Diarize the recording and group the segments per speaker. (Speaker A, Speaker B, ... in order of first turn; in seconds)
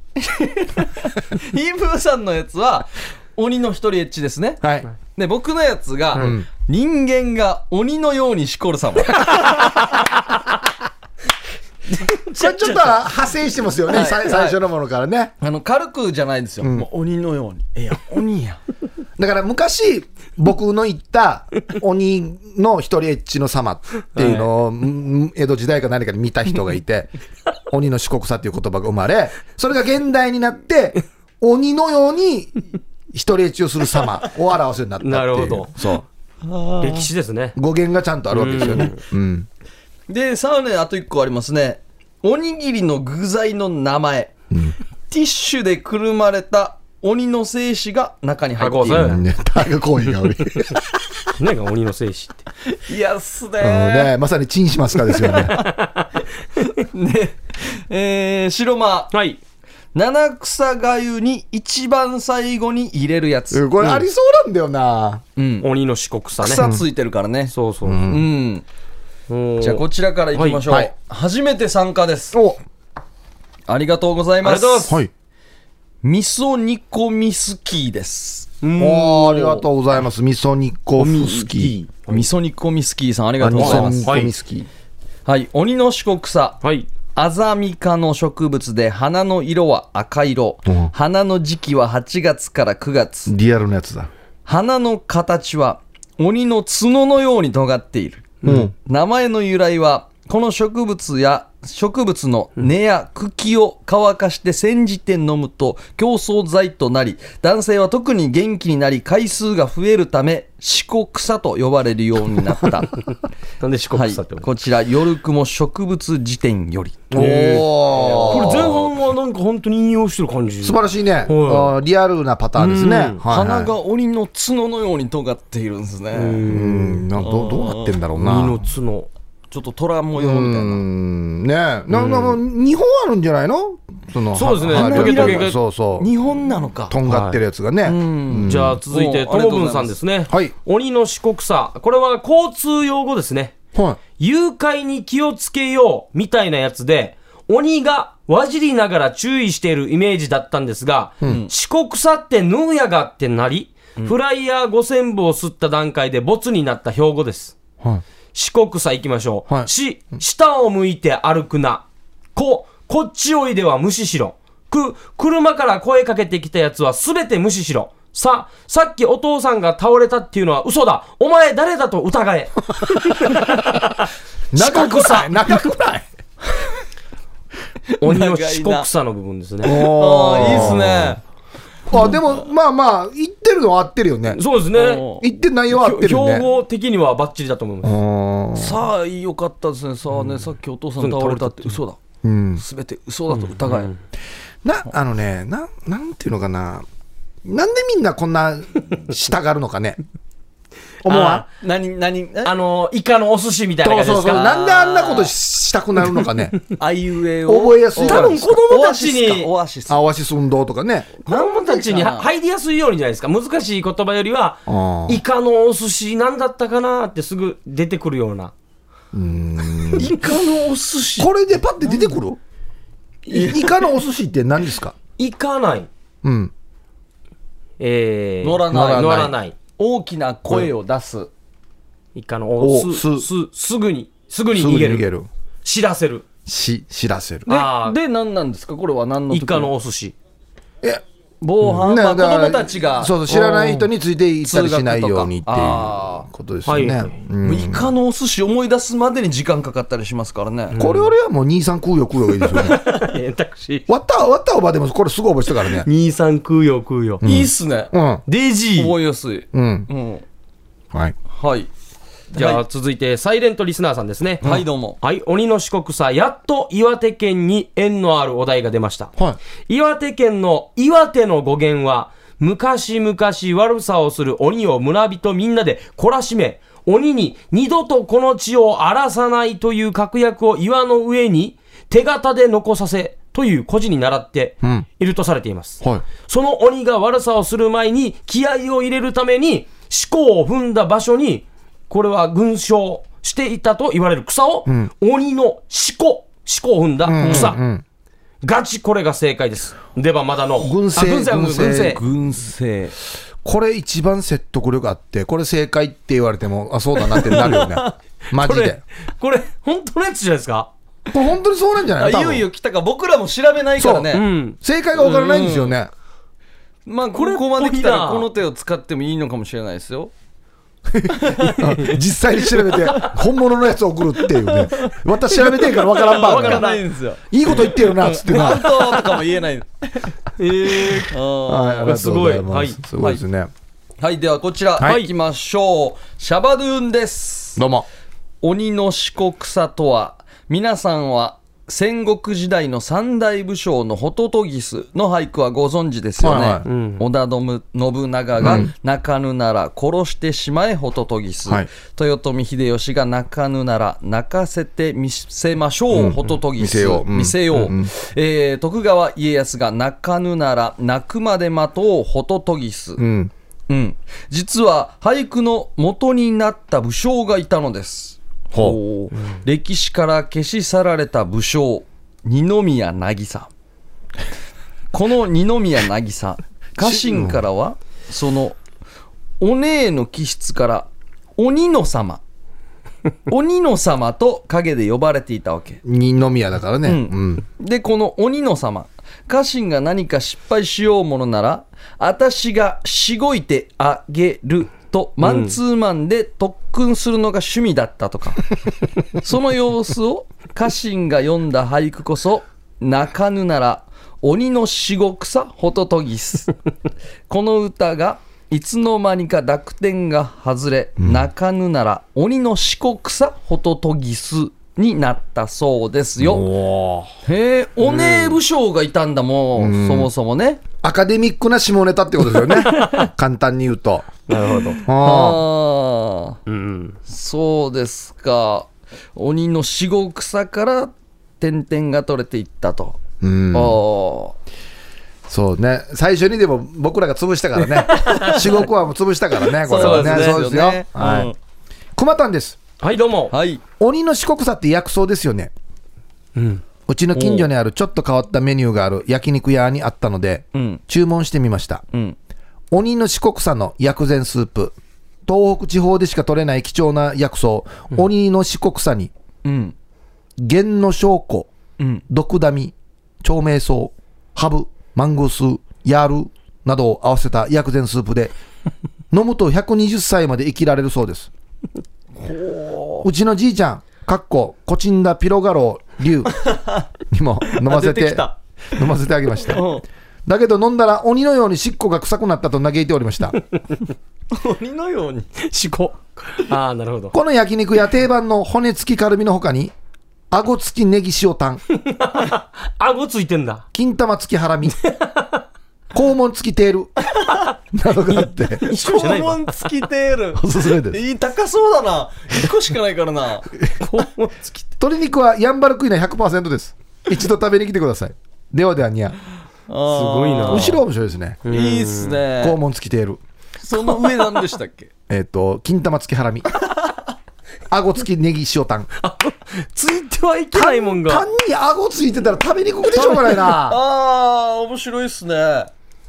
Speaker A: 0.2-4.6, 5.1-9.5, 13.9-14.6, 15.4-18.6, 36.4-37.1, 40.1-44.3, 45.1-49.2, 52.7-54.1, 55.3-55.7, 56.6-59.1, 59.9-63.7, 65.4-65.7, 66.4-67.5, 68.1-68.6, 69.6-72.4, 73.7-74.9, 76.0-78.6, 82.1-84.1, 85.2-86.6, 87.1-93.3, 94.5-113.0, 113.9-118.8, 122.8-126.4, 127.2-127.9, 129.5-130.8, 134.7-136.9, 137.8-140.0, 151.2-151.5, 177.9-178.9, 179.6-181.2, 184.7-185.2, 188.6-192.0, 192.6-193.9, 201.5-202.5, 204.2-205.3, 206.8-210.0, 211.2-212.3, 219.9-221.3, 223.3-223.8, 228.4-229.2, 229.8-231.3, 237.5-239.7, 241.4-243.3, 244.4-246.3, 247.4-250.8, 257.2-257.9, 258.7-260.2, 261.3-261.7, 262.3-262.6, 264.4-265.0, 297.2-297.6, 301.6-302.9, 307.4-307.9, 312.0-314.2, 314.9-315.8, 316.9-320.1, 321.2-321.6, 324.5-324.9, 325.7-330.1, 331.0-331.9, 334.0-337.6, 338.4-363.0, 363.7-373.5, 374.9-378.6, 379.4-382.2, 383.3-385.8, 386.8-398.4, 399.2-406.5, 407.3-416.5, 417.2-420.6, 424.7-426.4, 427.1-433.0, 433.5-434.4, 437.9-438.4, 439.6-441.4, 443.3-443.6, 447.1-447.5, 450.5-450.8, 451.9-452.2, 459.4-459.7, 461.8-462.0, 472.2-473.1, 476.4-476.9, 477.5-478.3, 479.4-479.8, 484.3-485.3, 498.7-503.5, 509.7-510.8, 511.5-512.6, 513.6-514.9, 522.9-525.7
Speaker B: 4.6-4.9, 6.2-6.5, 12.3-15.3, 16.6-16.9, 19.2-27.1, 27.7-36.0, 37.5-39.5, 44.5-44.8, 49.0-50.8, 53.6-55.6, 63.5-65.2, 67.8-68.2, 72.3-72.6, 78.8-81.7, 83.4-84.7, 90.7-90.9, 93.3-94.1, 98.4-98.7, 117.1-118.8, 120.6-123.7, 126.5-128.6, 130.2-136.1, 136.9-138.8, 140.3-140.5, 143.7-144.0, 174.5-176.1, 179.6-181.2, 181.9-184.4, 185.2-186.4, 187.8-188.8, 192.2-192.6, 194.6-196.8, 197.4-200.0, 201.0-201.4, 203.8-206.6, 207.4-208.5, 209.9-211.1, 214.7-215.2, 219.1-220.1, 221.2-222.4, 223.3-224.9, 226.2-226.5, 228.7-229.3, 232.6-233.3, 234.5-235.3, 236.4-237.5, 241.7-247.9, 250.8-252.8, 253.9-255.9, 257.2-258.2, 259.5-259.9, 297.0-297.8, 300.6-302.0, 303.4-308.8, 311.1-312.4, 313.8-315.9, 320.9-326.7, 327.3-328.9, 331.4-333.5, 337.6-337.9, 346.2-346.6, 348.4-348.7, 355.9-357.9, 363.0-363.3, 368.5-368.8, 376.8-377.4, 385.8-387.4, 411.0-411.3, 416.2-417.1, 419.6-420.1, 420.8-424.1, 424.9-425.4, 433.2-433.8, 435.3-441.3, 441.9-442.6, 443.8-445.5, 446.9-451.8, 452.7-459.1, 460.4-461.5, 462.1-468.3, 469.1-471.3, 473.0-479.7, 480.2-483.4, 487.1-489.7, 490.3-491.6, 493.7-494.8, 495.9-496.9, 497.7-498.7, 500.3-501.0, 504.8-509.2, 510.4-511.4, 512.4-513.2, 515.1-516.5, 517.7-518.9, 520.5-523.8
Speaker C: 12.4-12.8, 24.2-24.5, 35.0-35.7, 36.8-37.5, 38.3-39.0, 48.6-49.2, 51.4-52.5, 55.6-56.1, 59.1-59.4, 63.8-64.0, 65.6-66.7, 67.5-68.1, 69.3-70.6, 74.4-75.0, 78.6-79.7, 81.0-82.3, 83.5-84.3, 86.6-86.9, 98.4-98.7, 113.6-114.5, 117.2-117.7, 118.2-121.8, 122.6-123.2, 126.1-127.1, 128.2-129.1, 131.9-132.4, 134.3-135.6, 137.1-137.4, 138.4-143.5, 144.2-157.5, 158.3-175.5, 178.0-180.7, 184.3-185.1, 185.7-187.9, 191.0-191.8, 193.3-194.0, 201.1-201.4, 202.4-204.6, 208.0-209.5, 211.2-218.5, 225.2-225.9, 227.8-229.5, 232.1-235.1, 235.6-236.2, 237.4-238.0, 239.3-240.1, 243.3-243.9, 246.7-247.1, 250.7-251.1, 252.4-253.8, 255.7-257.2, 258.3-258.9, 262.3-269.1, 269.7-297.6, 298.4-302.0, 308.3-310.7, 314.1-314.6, 317.1-318.3, 321.6-322.0, 325.9-326.8, 327.8-328.5, 330.4-331.1, 331.8-332.8, 334.8-335.1, 346.6-347.0, 395.2-395.5, 417.8-418.4, 422.6-423.1, 424.3-424.8, 426.5-427.0, 437.9-438.4, 439.7-440.5, 442.8-443.3, 446.4-446.6, 485.4-487.1, 491.8-493.6, 494.8-495.4, 498.1-499.6, 503.8-504.5, 509.9-510.8, 511.4-512.2, 519.0-521.2